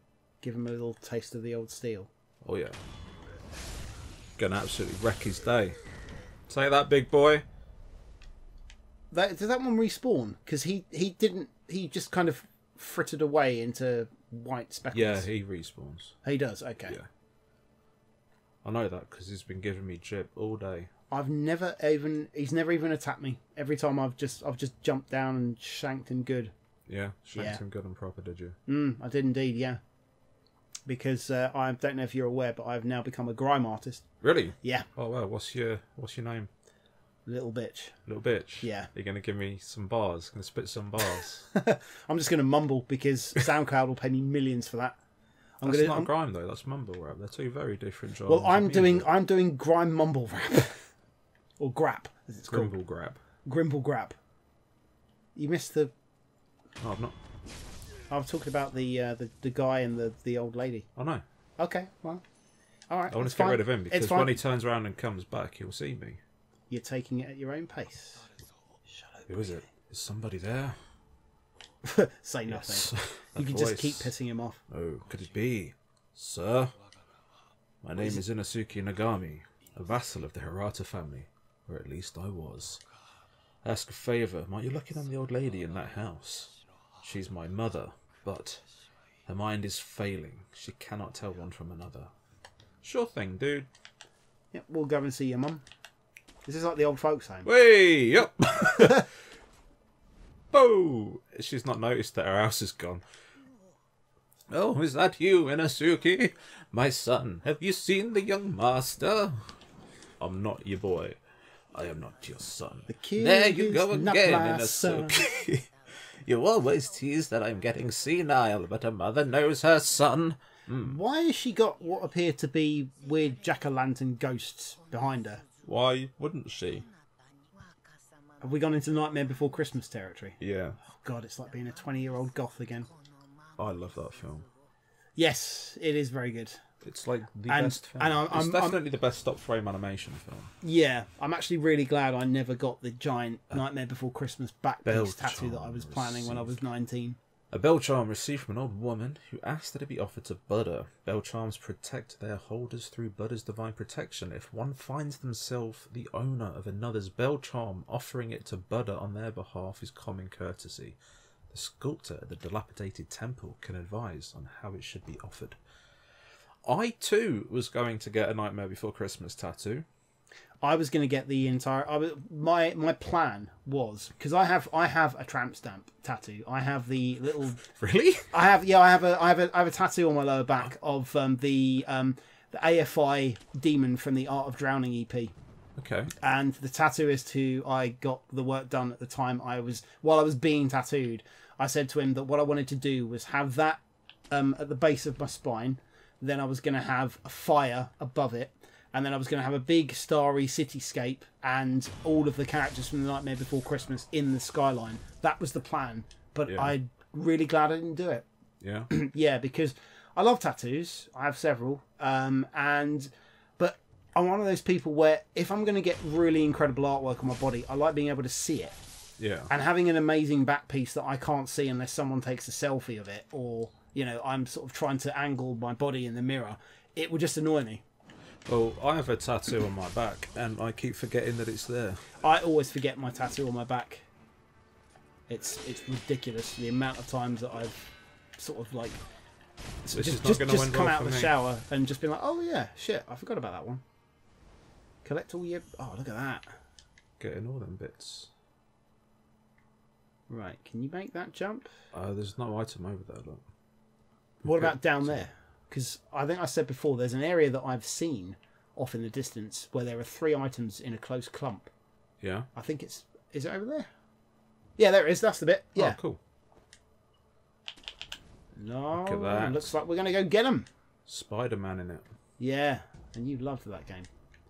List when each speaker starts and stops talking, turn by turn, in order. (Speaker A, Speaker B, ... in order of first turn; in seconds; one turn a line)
Speaker A: 0.4-2.1
Speaker B: 2.4-2.8
Speaker B: 4.4-5.8
Speaker B: 6.5-7.5
Speaker A: 9.1-15.3
Speaker B: 14.9-16.2
Speaker A: 16.2-17.0
Speaker B: 18.6-20.9
Speaker A: 21.1-26.5
Speaker B: 26.9-28.6
Speaker A: 27.4-27.6
Speaker A: 28.7-29.8
Speaker A: 30.9-34.0
Speaker B: 34.2-36.5
Speaker A: 34.6-34.9
Speaker A: 37.3-38.0
Speaker B: 38.1-41.5
Speaker A: 38.6-38.9
Speaker A: 41.5-45.0
Speaker A: 45.6-46.1
Speaker B: 45.6-49.1
Speaker A: 48.3-50.8
Speaker A: 51.6-52.7
Speaker B: 52.5-53.2
Speaker A: 53.5-54.2
Speaker A: 55.4-55.9
Speaker B: 56.8-57.2
Speaker A: 58.1-60.9
Speaker B: 61.0-61.2
Speaker A: 61.6-62.2
Speaker A: 62.9-64.4
Speaker B: 63.1-66.2
Speaker A: 66.7-68.2
Speaker A: 68.9-69.6
Speaker B: 69.3-70.8
Speaker A: 71.8-74.6
Speaker B: 72.5-74.1
Speaker B: 74.7-76.8
Speaker B: 77.8-82.8
Speaker A: 78.0-78.2
Speaker B: 83.6-88.6
Speaker B: 89.3-92.1
Speaker B: 92.8-93.7
Speaker A: 94.5-95.6
Speaker A: 96.5-97.5
Speaker B: 97.5-99.1
Speaker B: 100.5-103.0
Speaker B: 104.5-109.4
Speaker B: 110.2-111.2
Speaker B: 111.7-121.0
Speaker A: 112.9-115.2
Speaker A: 120.8-125.4
Speaker B: 125.6-126.9
Speaker A: 128.4-130.4
Speaker B: 130.4-130.8
Speaker A: 130.9-132.9
Speaker B: 133.6-134.5
Speaker A: 135.2-136.6
Speaker B: 136.8-140.5
Speaker A: 137.5-138.8
Speaker A: 140.6-147.2
Speaker B: 144.9-146.5
Speaker B: 147.5-161.0
Speaker B: 161.5-165.6
Speaker B: 166.7-169.9
Speaker A: 170.6-177.6
Speaker B: 177.8-178.3
Speaker A: 178.3-185.3
Speaker B: 185.8-186.1
Speaker A: 186.2-208.3
Speaker B: 208.6-208.9
Speaker A: 208.9-218.8
Speaker B: 219.2-219.5
Speaker A: 219.5-227.8
Speaker B: 228.5-232.1
Speaker A: 232.2-234.1
Speaker A: 235.3-237.8
Speaker A: 238.4-239.0
Speaker A: 239.8-243.8
Speaker B: 239.9-241.3
Speaker A: 245.0-246.5
Speaker B: 247.2-248.3
Speaker A: 250.3-251.7
Speaker B: 251.9-253.4
Speaker B: 254.4-255.3
Speaker A: 254.4-261.7
Speaker B: 262.2-262.5
Speaker A: 262.6-263.9
Speaker A: 264.8-266.0
Speaker B: 265.8-266.2
Speaker A: 268.6-270.7
Speaker B: 268.9-269.7
Speaker B: 271.1-272.1
Speaker A: 272.4-274.1